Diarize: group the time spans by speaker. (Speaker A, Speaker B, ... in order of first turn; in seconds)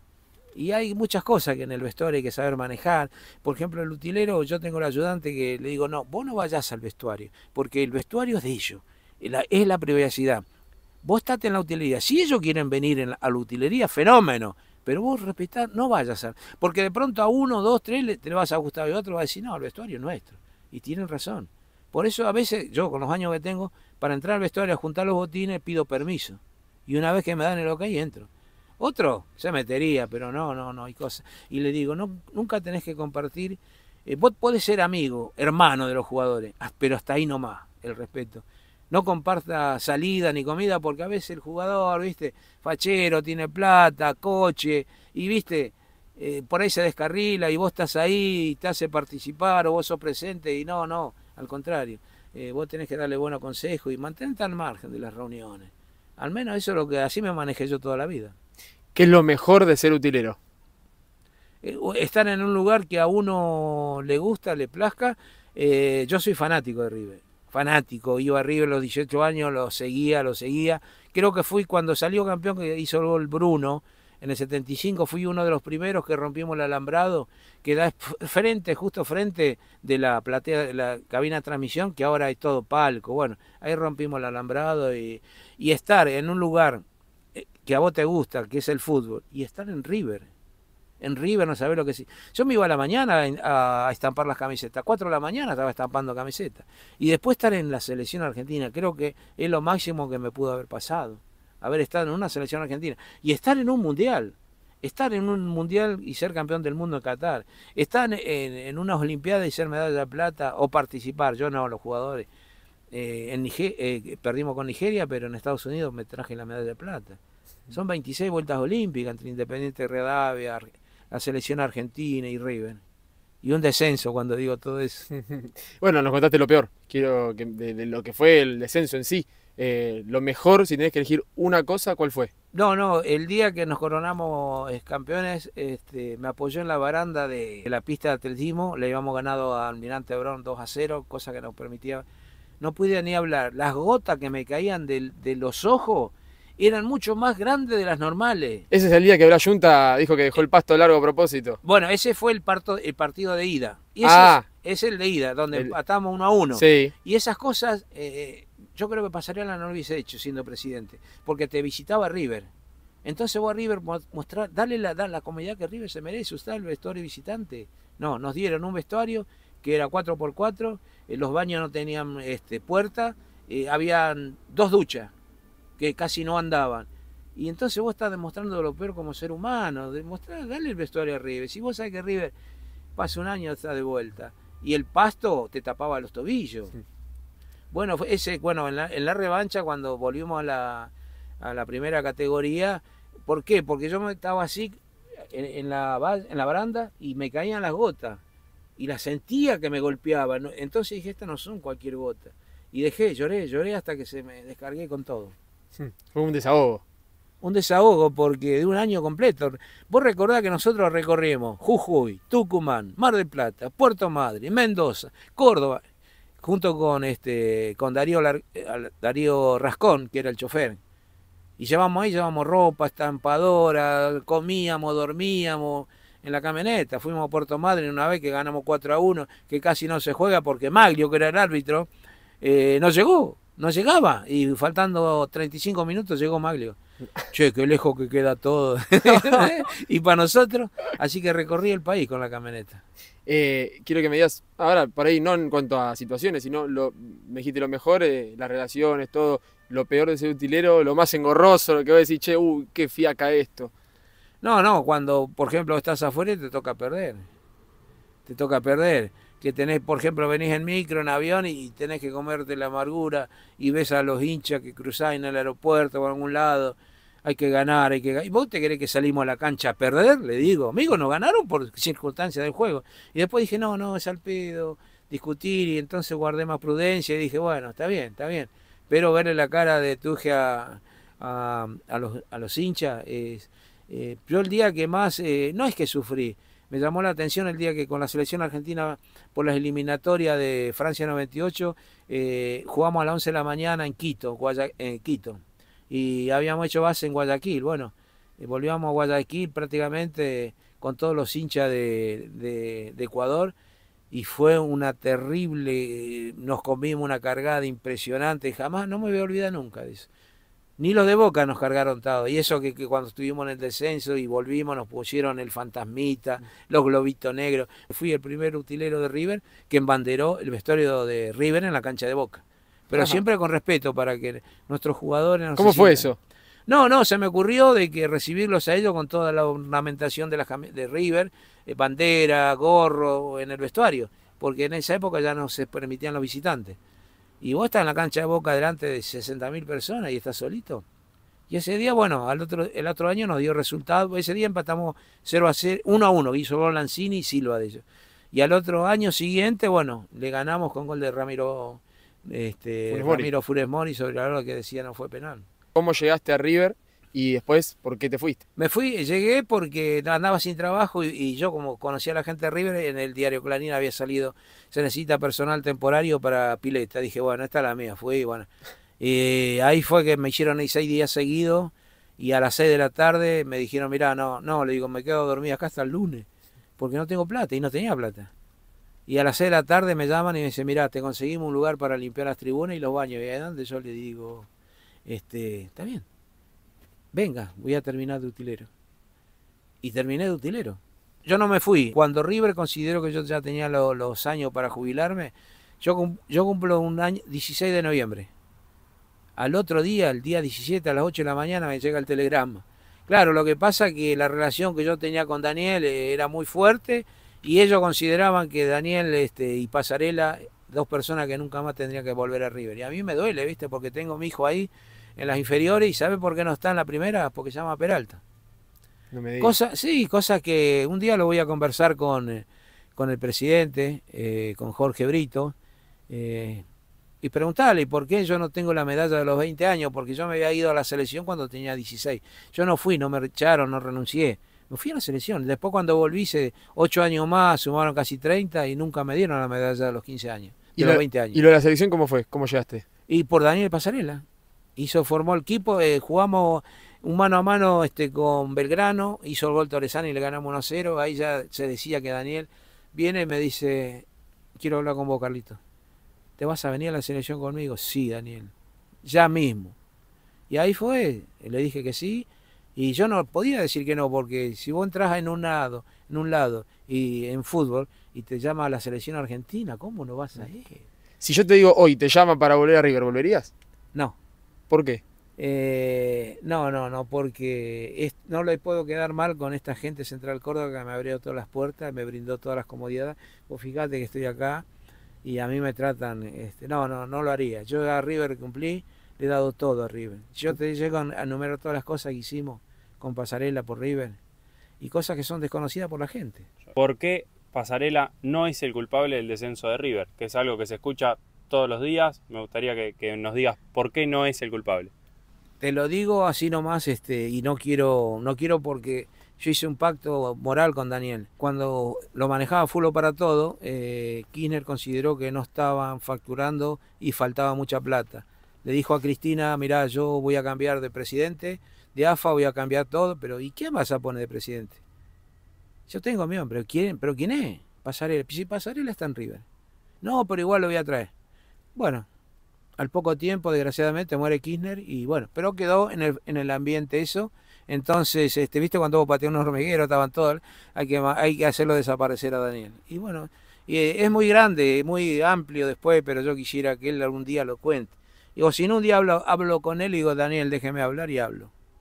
Speaker A: 0.6-10.4, 11.0-28.3, 28.8-58.4, 61.6-86.8, 87.4-90.3, 91.0-112.3, 112.9-117.2, 117.7-122.8, 123.4-125.1, 132.5-142.1, 142.6-148.7, 151.6-162.5, 163.0-175.1, 175.8-182.3, 183.0-186.7, 187.7-198.2, 198.8-205.3, 207.4-215.8, 216.4-220.8, 221.6-231.9, 232.4-236.8, 237.3-242.8, 254.4-257.3, 258.3-303.5, 304.1-310.1, 310.8-326.1, 326.7-336.8, 337.4-340.9, 341.5-355.4, 358.6-368.5, 369.0-376.3, 376.8-378.3, 379.1-384.5, 385.1-386.1, 387.1-388.7, 389.8-398.3, 399.4-418.2, 419.4-422.4, 423.0-425.5, 426.1-426.6, 427.2-441.4, 443.1-444.2, 444.8-454.1, 454.6-455.6, 456.4-458.5, 459.1-459.8, 460.5-470.8, 475.4-484.6, 485.2-494.2, 494.8-496.5, 505.6-524.8, 525.9-529.5, 530.0-531.1, 531.8-532.1, 532.8-551.5
Speaker B: 59.0-60.4, 125.1-132.3, 148.7-151.6, 154.0-154.5, 156.6-156.9, 205.8-206.8, 239.1-239.5, 243.3-253.7, 325.6-326.2, 352.9-353.3, 355.8-358.4, 419.1-419.6, 440.8-442.9, 471.2-473.5, 474.7-475.0
Speaker C: 496.8-504.9